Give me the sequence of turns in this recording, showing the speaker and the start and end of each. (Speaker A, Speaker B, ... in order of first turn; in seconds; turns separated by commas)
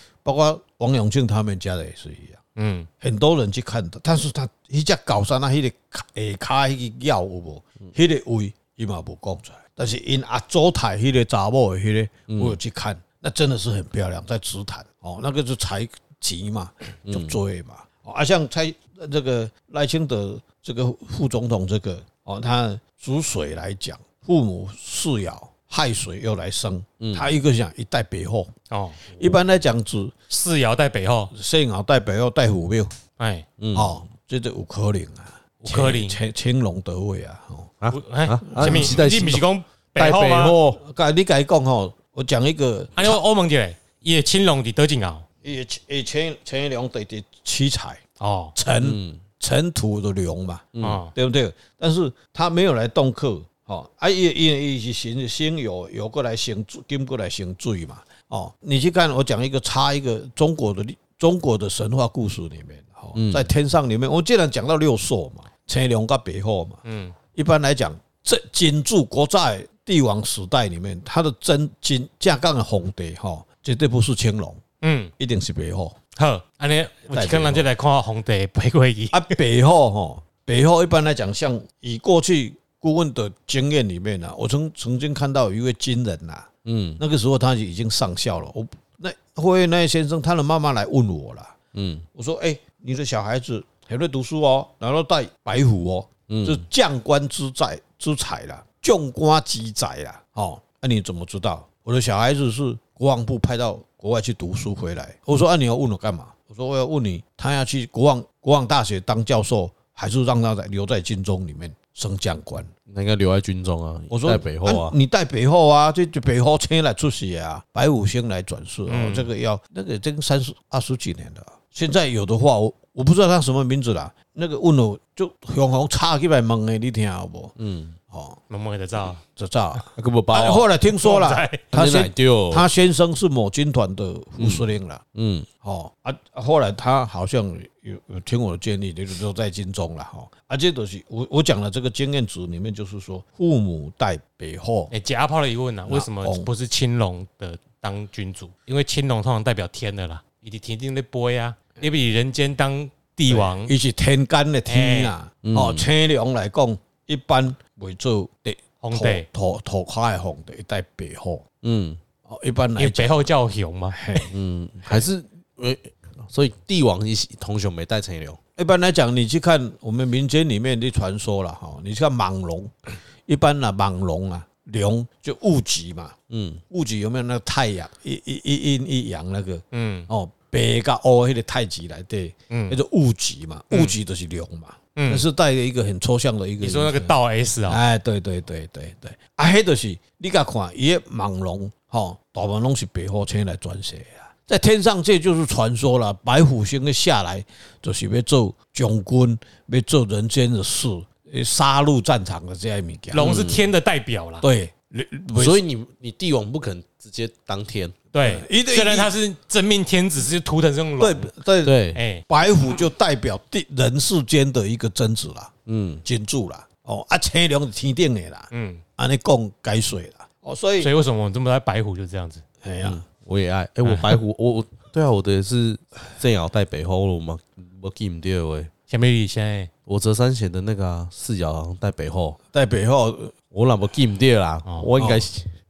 Speaker A: 0.2-2.4, Speaker B: 2.5-2.9, Speaker A: 3.0-28.5, Speaker C: 12.3-12.6, Speaker C: 17.1-17.4, Speaker C: 27.0-27.3, Speaker B: 28.7-29.0, Speaker A: 29.1-30.1, Speaker B: 30.3-31.3, Speaker A: 31.3-32.9, Speaker B: 33.2-33.5, Speaker C: 33.6-34.0, Speaker A: 33.7-37.7, Speaker B: 35.6-36.2, Speaker C: 37.8-39.4, Speaker B: 37.9-40.6, Speaker A: 38.5-39.0, Speaker C: 40.0-40.8, Speaker A: 40.8-43.2, Speaker B: 43.0-45.2, Speaker A: 45.4-48.0, Speaker B: 48.2-48.5, Speaker A: 48.5-66.8, Speaker C: 48.8-49.2, Speaker B: 50.8-51.1, Speaker C: 63.1-63.5, Speaker B: 66.8-67.2, Speaker A: 67.3-74.6, Speaker B: 74.8-75.1, Speaker A: 75.2-76.0, Speaker B: 76.2-79.3, Speaker A: 77.1-77.7, Speaker A: 79.1-86.5, Speaker C: 86.7-87.0, Speaker A: 87.0-91.5, Speaker C: 91.7-92.0, Speaker A: 92.1-112.7, Speaker C: 96.3-96.6, Speaker C: 112.9-114.9, Speaker A: 114.1-127.5, Speaker B: 118.9-119.3, Speaker C: 127.6-128.0, Speaker A: 128.1-128.4, Speaker B: 128.5-129.2, Speaker A: 129.2-135.0, Speaker C: 129.9-130.7, Speaker B: 130.9-131.6, Speaker C: 131.7-132.7, Speaker C: 134.4-135.5, Speaker A: 135.6-144.9, Speaker B: 144.9-153.7, Speaker A: 145.9-146.5, Speaker A: 153.3-161.4, Speaker B: 154.7-155.1, Speaker C: 155.4-155.9, Speaker B: 158.8-159.2, Speaker C: 161.6-162.0, Speaker A: 162.3-163.3, Speaker B: 162.8-164.0, Speaker A: 163.9-164.3, Speaker C: 164.3-168.4, Speaker A: 168.6-172.7, Speaker A: 173.3-176.2, Speaker C: 176.3-176.6, Speaker A: 176.7-187.1, Speaker B: 179.7-180.1, Speaker B: 182.5-182.8, Speaker B: 184.9-185.2, Speaker B: 186.6-187.8, Speaker A: 187.7-203.3, Speaker B: 203.1-204.4, Speaker C: 203.2-203.7, Speaker A: 204.4-205.6, Speaker C: 205.3-207.9, Speaker B: 208.1-211.3, Speaker A: 208.2-209.1, Speaker A: 211.0-215.5, Speaker C: 211.6-212.0, Speaker B: 211.9-212.2, Speaker C: 215.7-216.0, Speaker A: 216.0-220.9, Speaker B: 218.5-218.8, Speaker B: 220.8-222.4, Speaker A: 222.6-223.0, Speaker C: 222.8-228.7, Speaker B: 223.8-224.2, Speaker B: 228.9-229.7, Speaker C: 229.9-232.4, Speaker A: 232.5-233.3, Speaker C: 233.5-235.5, Speaker B: 234.6-235.2, Speaker A: 235.0-235.2